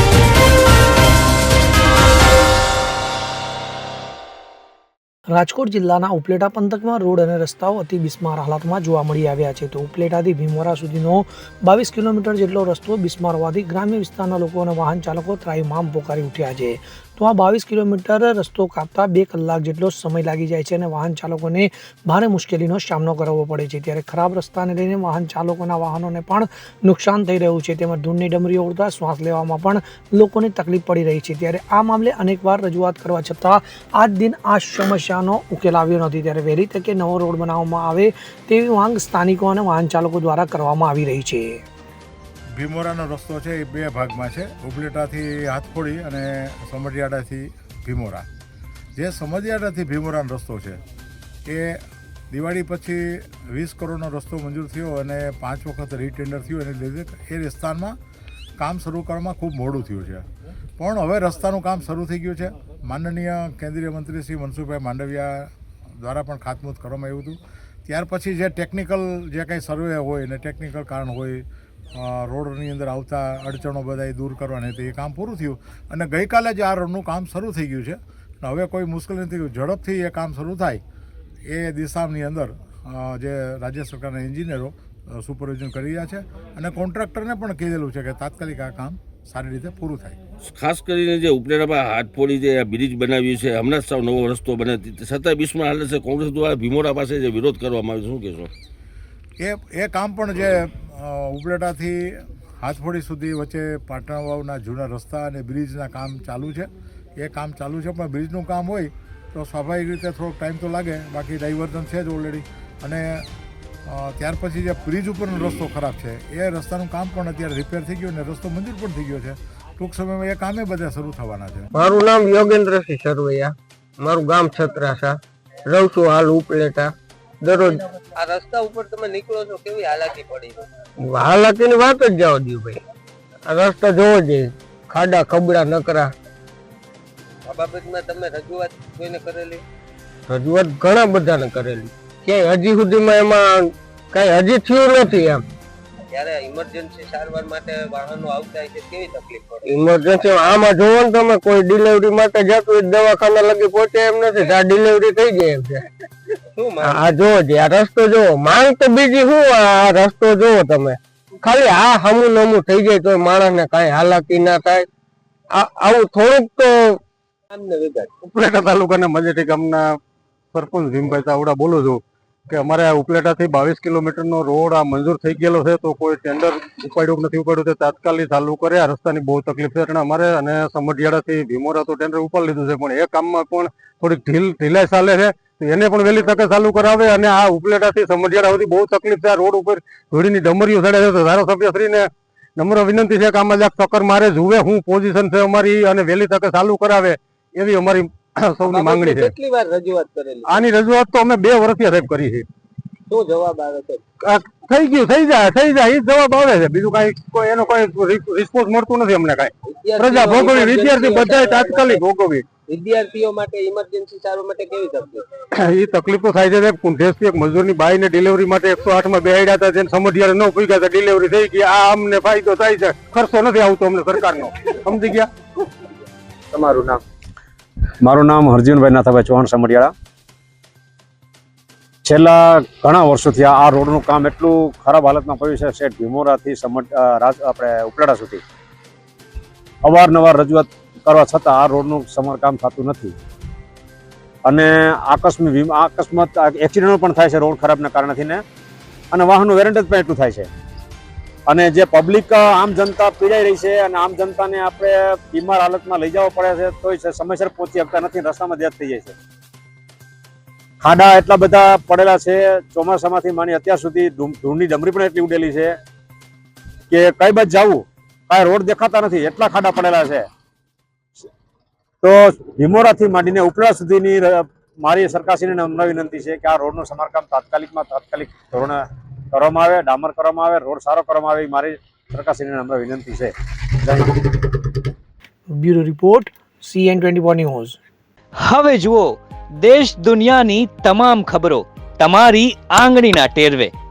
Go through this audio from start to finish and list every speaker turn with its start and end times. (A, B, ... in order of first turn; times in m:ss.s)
0:05.3-0:41.6 A
0:42.6-0:48.2 B
0:49.0-0:50.8 B
0:51.5-0:58.0 B
0:58.6-1:00.3 B
1:00.8-1:20.8 B
1:21.5-1:30.2 B
1:30.5-1:38.5 C
1:39.4-1:53.2 B
1:53.9-2:01.7 B
2:01.8-2:07.8 D
2:08.2-2:10.6 E
2:11.0-2:12.8 D
2:13.5-2:16.1 D
2:17.5-2:19.6 E
2:20.3-2:25.4 D
2:26.1-2:29.6 E
2:29.6-2:35.8 D
2:36.6-2:37.2 E
2:36.8-2:44.9 D
2:45.5-2:47.0 D
2:47.5-2:48.1 E
2:48.2-2:50.0 F
2:50.5-3:19.3 F
3:18.7-3:20.7 E
3:20.4-3:22.5 F
3:23.1-3:24.0 E
3:24.2-3:32.4 F
3:29.6-3:32.0 E
3:32.7-3:35.3 E
3:35.6-3:45.3 F
3:46.5-3:47.0 G
3:48.0-3:49.9 G
3:52.1-3:58.4 G
3:59.8-4:03.2 G
4:04.5-4:08.4 G
4:09.1-4:10.5 G
4:11.5-4:19.1 G
4:20.8-4:25.7 G
4:26.9-4:30.3 G
4:32.0-4:38.8 G
4:39.3-4:44.5 G
4:45.5-4:47.8 A
4:48.5-4:53.7 H